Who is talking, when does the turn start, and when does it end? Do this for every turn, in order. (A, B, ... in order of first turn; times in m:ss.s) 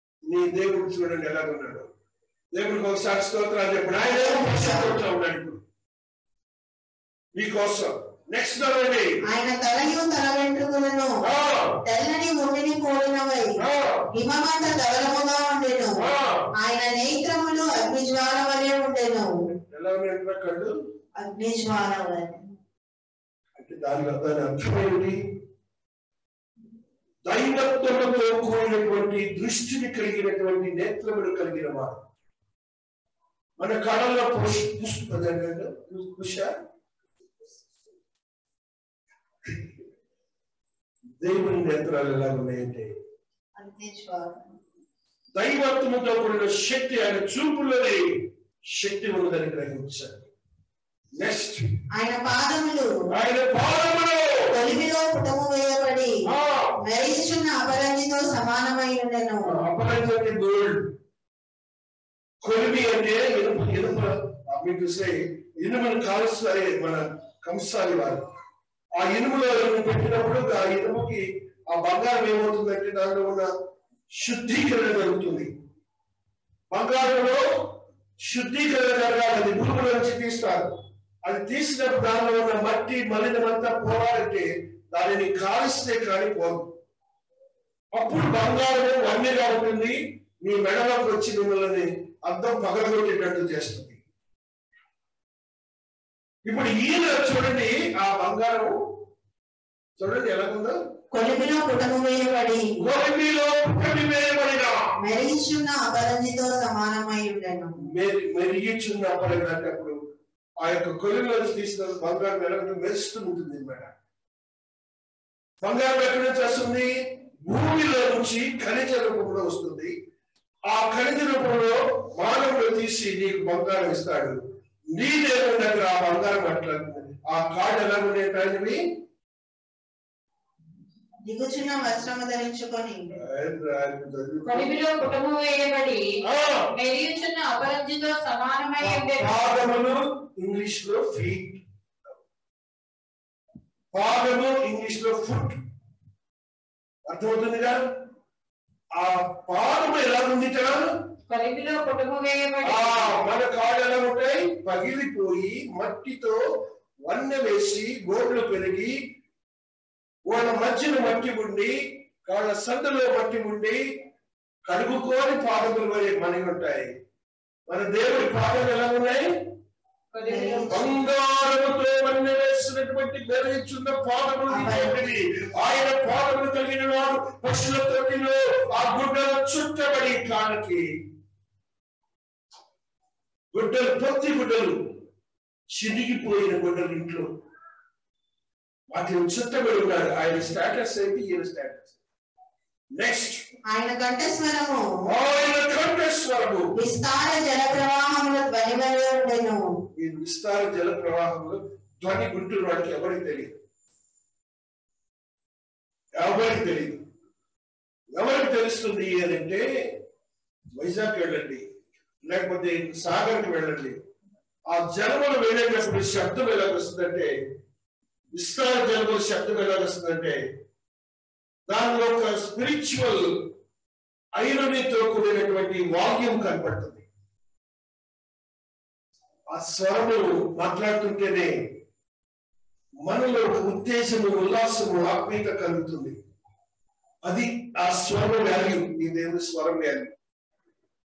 0:00.3-0:01.9 A
0:02.5-0:05.6 A
0:04.4-0:04.9 B
0:07.4-0:09.2 A
0:09.3-0:11.2 B
0:11.2-0:11.8 A
0:11.8-0:13.6 B
0:13.6-0:14.1 A
0:14.1-0:19.4 B
0:16.0-0:16.5 A
0:19.7-0:20.7 A
0:21.2-0:22.4 B
0:23.6-0:25.2 A
0:27.3-0:32.0 A
0:33.6-0:36.6 A
0:39.4-0:39.7 A
0:41.2-0:42.9 A
0:43.6-0:44.4 B
0:45.4-0:50.3 A
0:51.2-0:51.8 A
0:51.9-0:53.0 B
0:53.1-0:54.5 A
0:54.5-0:56.2 B
0:56.3-0:56.8 A
0:56.8-0:59.6 B
0:59.5-1:00.9 A
1:02.4-1:08.2 A
1:09.0-1:13.5 A
1:14.1-1:15.5 A
1:16.7-1:26.7 A
1:28.0-1:34.0 A
1:36.4-1:38.8 A
1:40.0-1:40.8 A
1:41.1-1:42.7 B
1:42.8-1:44.9 A
1:45.0-1:47.8 B
1:47.8-1:50.0 A
1:50.6-1:53.9 A
1:55.6-1:56.9 A
1:57.4-2:00.0 A
2:00.7-2:04.4 A
2:04.9-2:08.8 A
2:11.2-2:13.1 B
2:13.1-2:14.7 A
2:14.4-2:16.0 C
2:16.2-2:16.7 A
2:16.7-2:19.3 C
2:18.8-2:21.6 A
2:23.9-2:25.6 A
2:27.1-2:27.8 A
2:29.0-2:30.9 A
2:31.3-2:33.2 C
2:32.6-2:36.4 A
2:37.0-2:39.0 A
2:40.3-2:43.8 A
2:44.7-2:46.9 A
2:47.7-2:49.5 A
2:50.1-2:50.8 C
2:50.2-2:50.8 B
2:50.7-3:01.0 A
2:54.5-2:55.1 B
3:03.5-3:05.0 A
3:05.7-3:07.3 A
3:08.9-3:12.0 A
3:13.0-3:13.5 A
3:13.7-3:15.0 B
3:15.0-3:16.7 A
3:16.7-3:19.6 B
3:20.0-3:23.6 A
3:26.2-3:27.0 A
3:28.1-3:30.0 A
3:30.7-3:31.7 A
3:32.2-3:34.0 A
3:34.7-3:37.3 A
3:38.3-3:40.4 A
3:41.7-3:43.5 A
3:44.4-3:47.0 A
3:49.5-3:51.6 A
3:53.1-3:56.2 A
3:57.2-4:00.1 A